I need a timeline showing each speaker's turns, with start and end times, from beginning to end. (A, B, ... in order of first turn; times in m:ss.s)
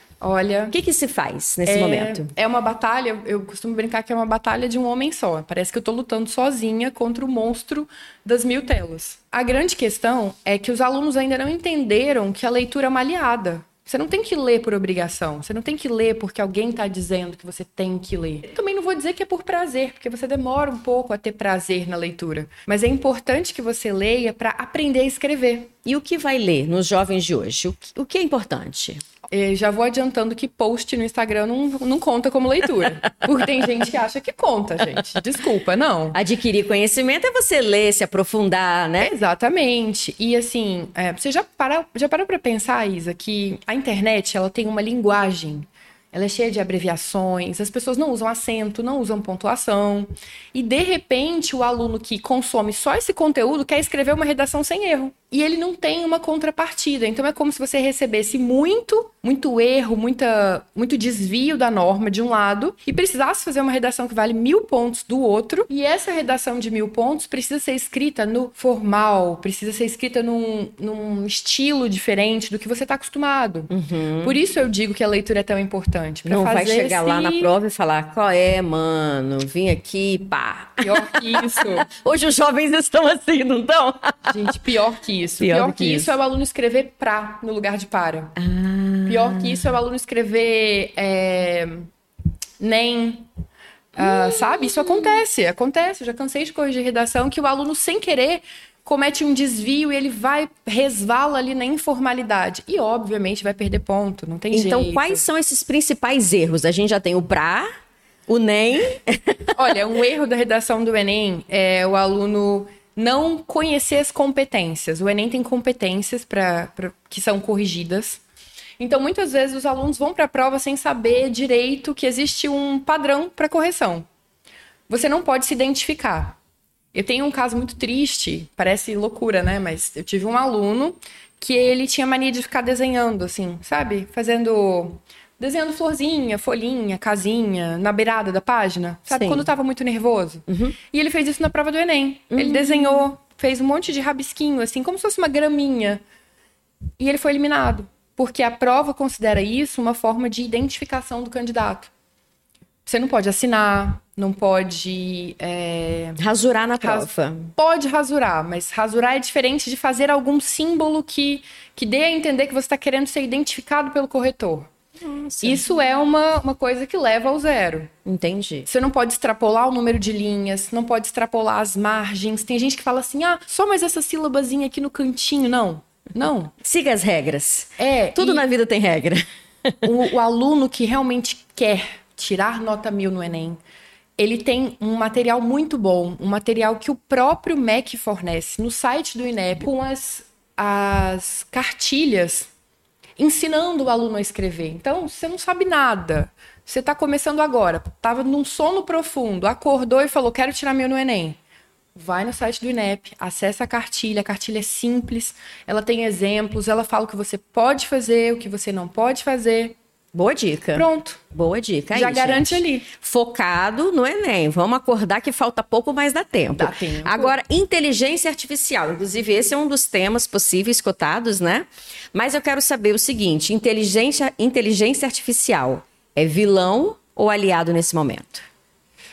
0:00.2-0:00.8 A
0:00.7-0:02.3 B
0:01.6-0:25.7 A
0:25.8-0:29.0 B
0:29.3-0:36.2 A
0:36.1-0:39.2 B
0:39.0-1:13.7 A
1:13.7-1:14.4 B
1:14.2-1:17.5 A
1:16.2-1:24.5 B
1:20.8-1:21.8 A
1:24.3-1:28.3 A
1:25.4-1:26.2 B
1:28.4-1:29.7 B
1:29.1-1:31.9 A
1:32.6-1:33.3 A
1:33.9-1:45.2 A
1:34.0-1:34.6 B
1:44.5-1:47.7 B
1:48.3-1:49.7 B
1:49.6-1:58.2 A
1:58.8-2:04.0 A
2:04.9-2:06.4 A
2:06.9-2:26.0 A
2:19.1-2:19.5 B
2:20.5-2:20.8 B
2:22.3-2:23.0 B
2:27.0-2:31.9 A
2:32.8-2:36.2 A
2:36.2-2:37.5 B
2:36.8-2:44.7 A
2:45.0-2:45.6 B
2:45.4-2:47.9 A
2:48.0-2:48.7 B
2:48.6-2:56.5 A
2:56.6-2:59.2 B
2:57.8-2:58.4 A
2:59.8-3:03.6 A
3:04.2-3:12.5 A
3:13.2-3:21.4 A
3:21.9-3:29.8 A
3:30.1-3:48.4 B
3:30.7-3:31.2 A
3:31.9-3:32.9 A
3:36.5-3:37.4 A